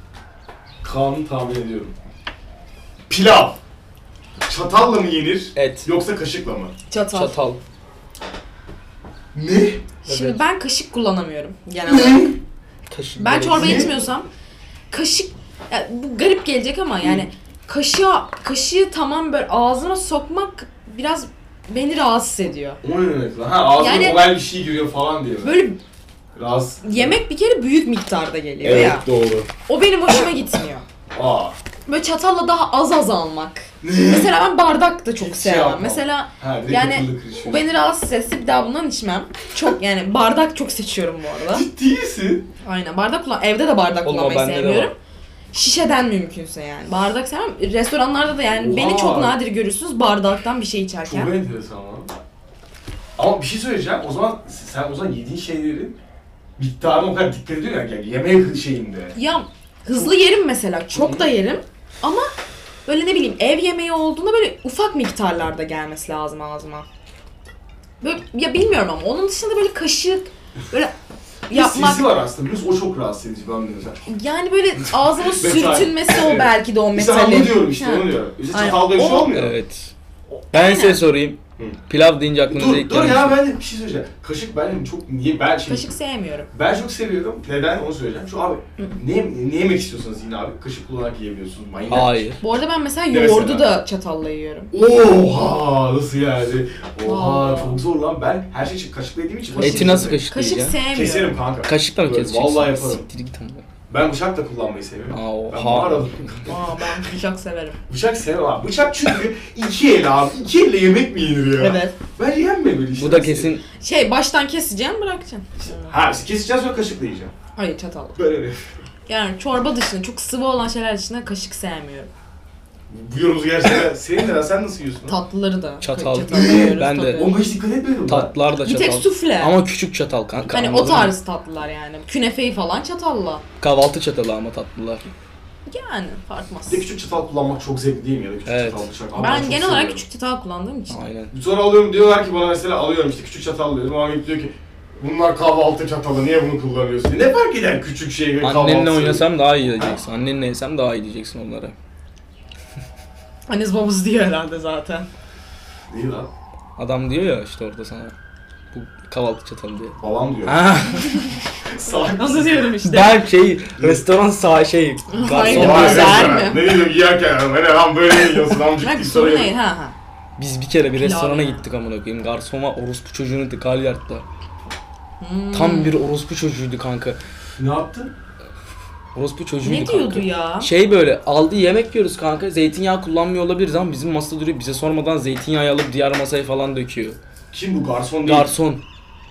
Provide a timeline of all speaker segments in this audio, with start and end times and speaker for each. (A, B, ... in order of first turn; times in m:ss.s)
0:00.8-0:01.9 A
0:03.1-0:03.6 A
0:04.4-0:06.7 A
0:05.5-0:05.9 B
0:06.9-0:07.4 C
0:07.1-0:07.6 B
0:09.3-0:09.8 A
0:10.0-0:12.3 C
0:10.1-0:10.4 B
0:11.8-0:12.4 A
0:12.9-0:14.1 B
0:13.2-0:14.3 C
0:13.5-0:14.0 A
0:14.9-0:22.8 C
0:17.0-0:17.3 A
0:22.8-0:25.6 A
0:23.7-0:24.3 C
0:25.4-0:25.8 C
0:26.3-0:27.2 A
0:26.8-0:29.1 C
0:28.6-0:29.5 A
0:29.7-0:30.8 C
0:31.1-0:31.6 A
0:31.8-0:41.6 C
0:33.8-0:34.3 A
0:35.2-0:37.6 A
0:41.5-0:42.5 A
0:42.6-0:44.9 C
0:44.0-0:44.9 B
0:45.5-0:51.3 C
0:48.5-0:49.4 A
0:51.0-0:52.1 A
0:53.2-0:56.0 A
0:56.6-0:59.2 A
0:59.1-1:02.2 C
1:00.9-1:01.3 A
1:02.8-1:06.8 C
1:08.0-1:10.9 C
1:11.5-1:12.1 C
1:11.5-1:14.0 A
1:14.1-1:19.3 C
1:15.2-1:19.6 A
1:19.3-1:19.9 B
1:20.5-1:23.4 B
1:20.5-1:21.0 C
1:22.5-1:25.9 A
1:25.6-1:26.5 C
1:26.5-1:32.3 A
1:31.8-1:32.4 B
1:32.4-1:34.7 C
1:33.1-1:33.7 A
1:34.7-1:40.2 A
1:37.0-1:37.8 C
1:39.6-1:41.4 C
1:39.6-1:40.8 B
1:40.9-1:43.0 A
1:41.6-1:43.6 B
1:43.9-1:47.0 A
1:45.1-1:46.5 B
1:46.4-1:47.8 C
1:47.9-1:53.6 A
1:51.6-1:52.0 C
1:52.9-1:53.6 B
1:53.8-1:55.9 C
1:55.6-1:57.3 A
1:57.5-1:58.2 C
1:58.2-1:58.6 A
1:59.1-2:02.1 C
2:02.9-2:05.2 A
2:05.0-2:07.3 C
2:05.8-2:07.4 B
2:06.3-2:08.3 A
2:08.0-2:11.2 B
2:08.6-2:09.5 C
2:10.4-2:13.4 C
2:13.6-2:15.1 B
2:15.7-2:16.9 C
2:16.7-2:20.0 A
2:18.4-2:18.9 B
2:19.1-2:21.1 C
2:20.9-2:21.3 B
2:21.3-2:30.0 A
2:28.4-2:31.8 B
2:33.5-2:35.1 C
2:35.9-2:36.3 A
2:36.8-2:38.1 B
2:38.7-2:41.3 B
2:40.0-2:40.6 A
2:41.7-2:42.6 A
2:41.8-2:43.2 C
2:42.8-2:46.5 B
2:43.8-2:44.0 A
2:45.1-2:46.7 C
2:45.4-2:49.5 A
2:48.7-2:50.0 C
2:50.4-2:54.2 B
2:51.0-2:51.6 C
2:55.2-2:56.0 C
2:55.5-2:57.2 B
2:57.6-2:58.1 A
2:59.1-3:07.2 B
2:59.6-3:00.7 C
3:07.5-3:08.5 A
3:08.2-3:08.8 B